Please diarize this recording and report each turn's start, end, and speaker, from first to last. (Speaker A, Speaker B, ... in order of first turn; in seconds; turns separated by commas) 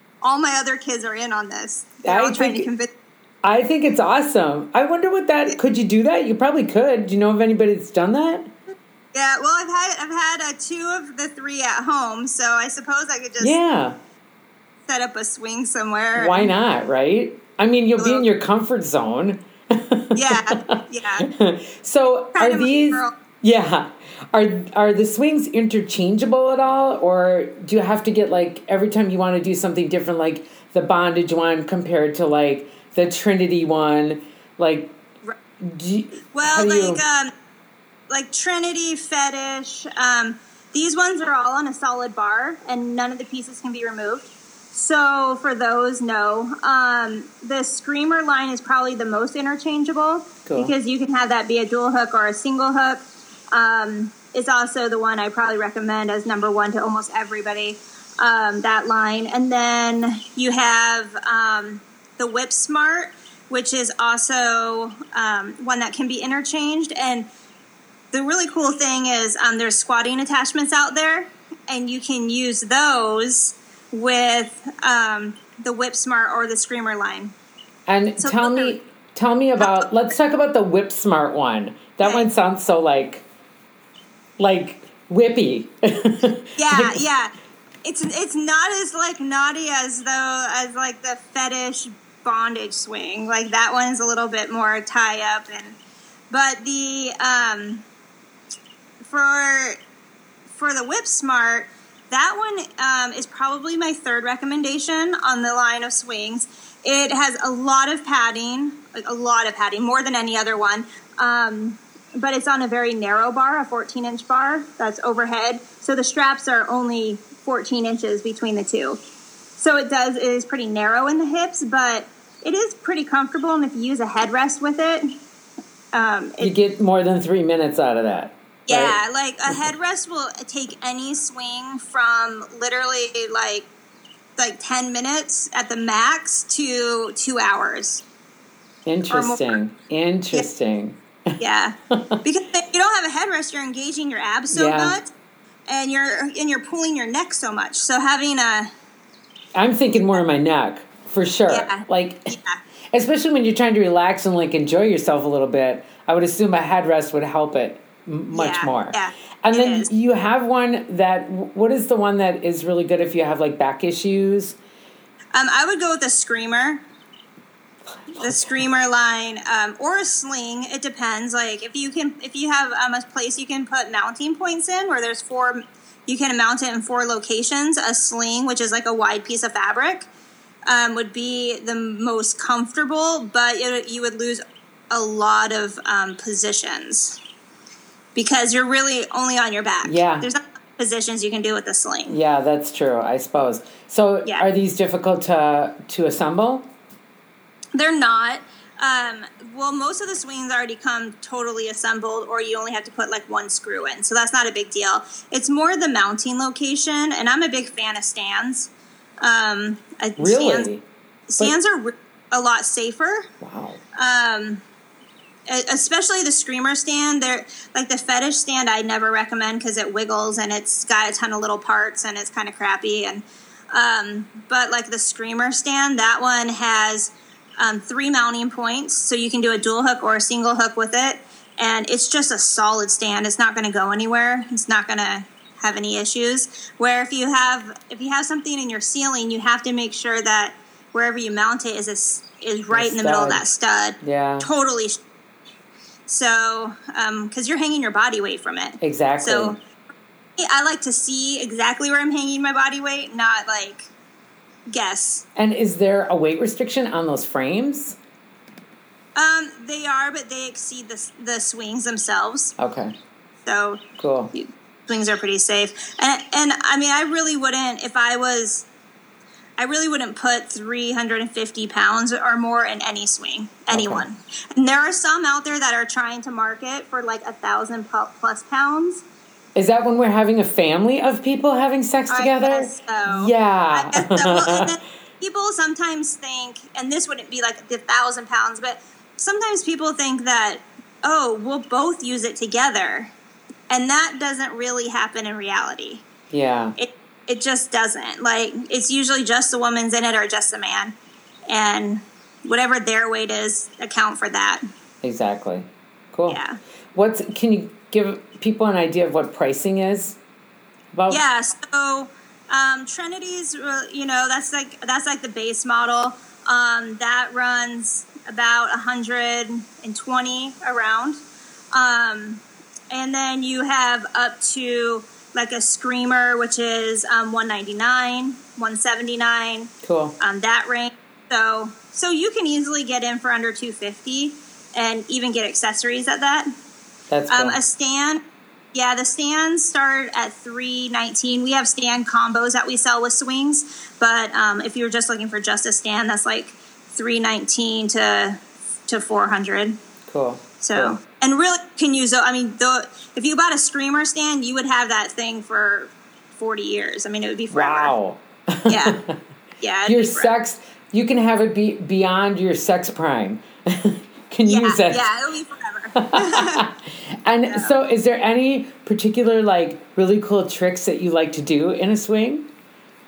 Speaker A: 0.2-2.9, Speaker B: 2.0-2.7, Speaker B: 3.4-8.5, Speaker A: 9.1-13.6, Speaker B: 13.4-14.0, Speaker A: 14.9-16.5, Speaker B: 16.1-20.2, Speaker A: 18.0-18.3, Speaker A: 20.1-21.3, Speaker B: 21.3-35.0, Speaker A: 22.3-23.1, Speaker B: 35.6-37.0, Speaker A: 36.3-37.3, Speaker A: 38.1-67.3, Speaker B: 50.5-50.7, Speaker A: 68.1-77.3, Speaker B: 77.9-83.2, Speaker A: 78.2-78.8, Speaker A: 79.6-79.9, Speaker A: 82.0-82.3, Speaker B: 84.4-87.0, Speaker A: 86.6-87.3, Speaker A: 87.8-95.8, Speaker A: 96.3-97.8, Speaker A: 99.0-99.8, Speaker A: 100.5-119.0, Speaker A: 119.6-125.1, Speaker A: 125.9-126.5, Speaker B: 126.4-129.0, Speaker A: 128.7-133.7, Speaker A: 134.4-138.0, Speaker B: 138.9-141.4, Speaker A: 139.1-139.4, Speaker A: 141.4-145.1, Speaker B: 144.5-145.0, Speaker A: 145.7-148.7, Speaker B: 149.6-152.3, Speaker A: 151.5-152.6, Speaker B: 152.9-164.6, Speaker A: 158.3-159.9, Speaker A: 165.3-166.8, Speaker B: 168.1-168.7, Speaker A: 168.2-180.1, Speaker A: 180.7-187.2, Speaker A: 188.2-192.2, Speaker B: 189.8-190.3, Speaker B: 192.1-196.7, Speaker A: 197.8-210.7, Speaker B: 210.2-210.8, Speaker A: 211.3-213.3, Speaker B: 213.4-213.8, Speaker A: 213.9-214.6, Speaker A: 215.5-245.0, Speaker B: 242.7-243.4, Speaker B: 244.0-244.5, Speaker A: 246.1-249.6, Speaker B: 248.8-249.6, Speaker A: 250.4-253.9, Speaker A: 254.7-255.2, Speaker B: 255.4-258.0, Speaker A: 259.2-262.5, Speaker B: 262.6-262.9, Speaker A: 263.4-263.8, Speaker B: 264.0-264.3, Speaker A: 264.3-268.7, Speaker A: 269.6-279.1, Speaker B: 273.7-274.1, Speaker B: 279.6-284.7, Speaker A: 282.1-293.1, Speaker A: 293.7-296.1, Speaker B: 296.3-296.8, Speaker A: 296.8-300.9, Speaker A: 301.5-304.6, Speaker B: 305.0-306.4, Speaker A: 306.3-306.6, Speaker B: 306.9-310.2, Speaker B: 310.9-311.2, Speaker A: 311.1-336.5, Speaker B: 329.8-330.1, Speaker B: 337.1-337.6, Speaker A: 337.3-338.2, Speaker A: 338.7-349.8, Speaker B: 350.1-351.0, Speaker A: 350.6-357.9, Speaker B: 357.5-359.2, Speaker A: 358.7-359.0, Speaker A: 359.6-360.3, Speaker B: 359.9-365.1, Speaker A: 364.4-366.6, Speaker B: 366.0-366.7, Speaker B: 367.2-372.5, Speaker A: 367.5-367.7